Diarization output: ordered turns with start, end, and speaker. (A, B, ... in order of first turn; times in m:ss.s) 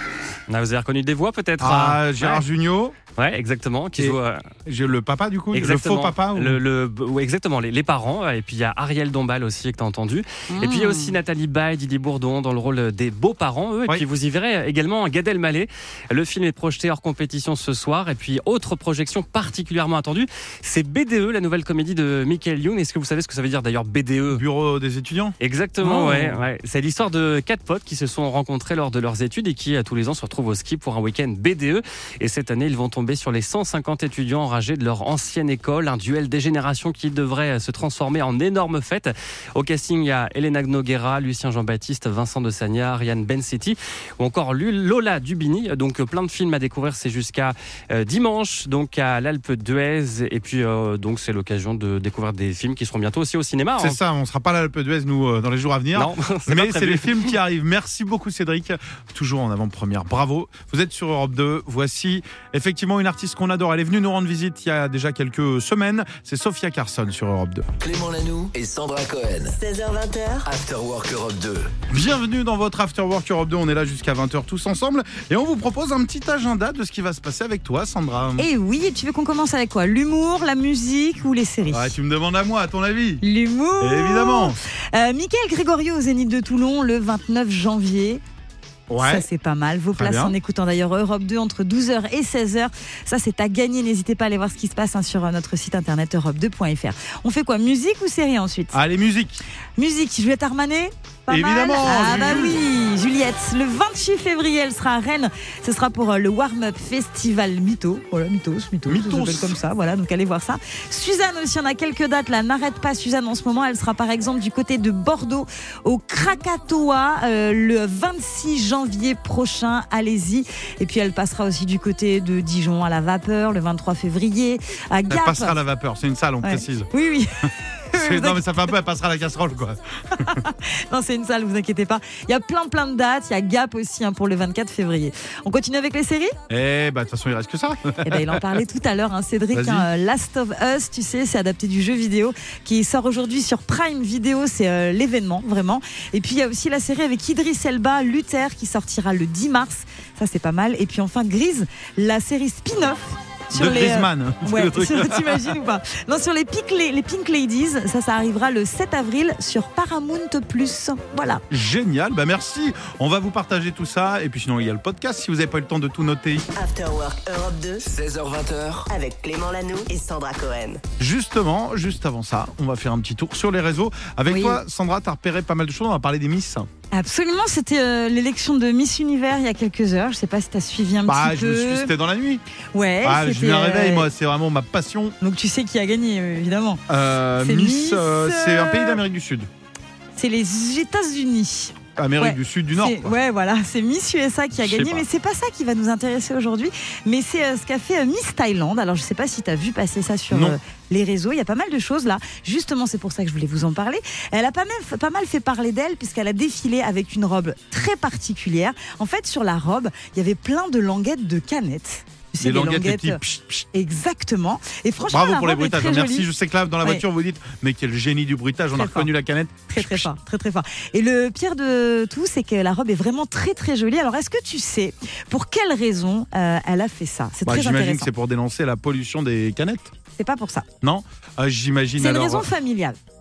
0:00.5-0:02.4 A
0:01.6-0:03.0 B
0:03.2-0:04.4 A
0:04.0-0:06.6 B
0:05.5-0:24.4 A
0:10.5-0:11.2 C
0:24.3-0:25.4 B
0:25.4-0:54.0 A
0:25.8-0:26.3 C
0:53.8-1:07.7 B
0:55.9-0:57.3 A
1:07.8-1:09.6 D
1:09.5-1:10.5 E
1:10.4-1:11.7 D
1:11.9-1:18.5 B
1:18.4-1:22.0 C
1:21.7-1:23.2 B
1:23.2-1:28.2 C
1:23.8-1:24.6 B
1:28.9-1:29.3 B
1:29.0-1:38.8 C
1:30.0-1:30.4 B
1:38.7-1:39.4 B
1:39.8-2:05.6 C
1:41.3-1:42.6 B
1:48.9-1:49.6 B
2:05.1-2:06.9 B
2:06.4-2:08.7 C
2:07.9-2:10.4 B
2:10.2-2:16.4 C
2:16.5-2:18.4 B
2:18.0-2:41.4 C
2:19.5-2:19.9 B
2:33.5-2:35.6 B
2:41.5-2:46.5 B
2:46.6-2:47.8 E
2:47.8-2:48.9 D
2:48.9-2:50.8 E
2:51.0-2:56.7 B
2:54.3-2:54.6 C
2:56.9-3:01.9 C
3:01.0-3:02.4 B
3:02.7-3:04.1 C
3:03.0-3:05.2 B
3:05.2-3:06.8 C
3:06.9-3:09.5 B
3:07.4-3:09.0 C
3:10.2-3:33.2 C
3:12.0-3:13.2 B
3:14.6-3:15.1 B
3:20.3-3:20.6 B
3:32.4-3:33.7 B
3:33.7-3:36.3 C
3:35.1-3:40.1 B
3:38.7-3:39.1 C
3:39.7-3:48.1 C
3:47.4-3:49.9 B
3:50.2-3:50.7 C
3:50.8-3:52.5 B
3:52.0-3:53.0 C